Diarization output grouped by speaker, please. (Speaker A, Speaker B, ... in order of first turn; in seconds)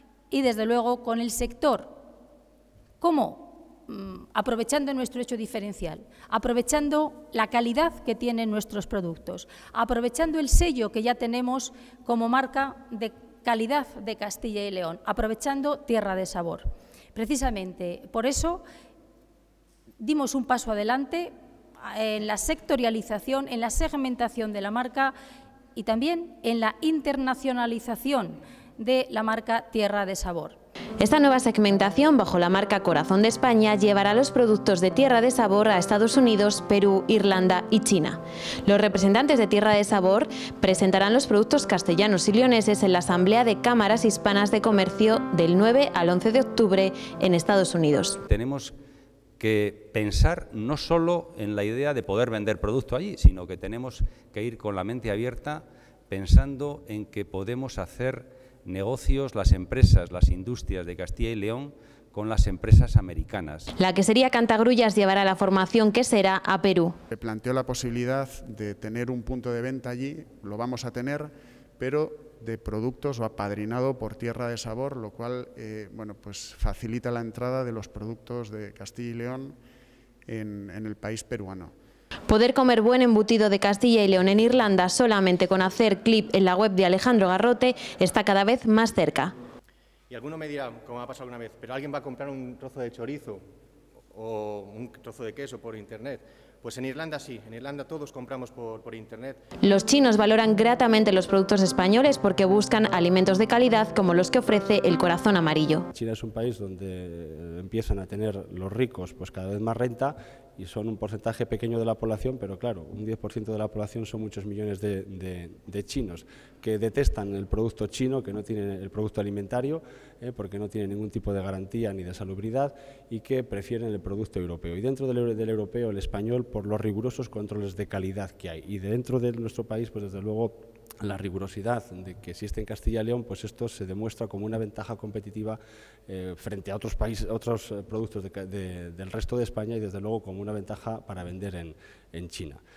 Speaker A: 0.3-2.0, 3.0-18.6, 20.0-21.3, 21.9-25.1, 25.8-30.6
Speaker B: 31.0-48.2, 63.8-66.9, 82.3-89.3, 99.6-105.9
Speaker C: 48.2-48.7, 49.4-63.7
Speaker D: 67.1-79.5, 80.3-81.7
Speaker E: 90.1-93.4, 94.1-99.4
Speaker F: 105.9-142.6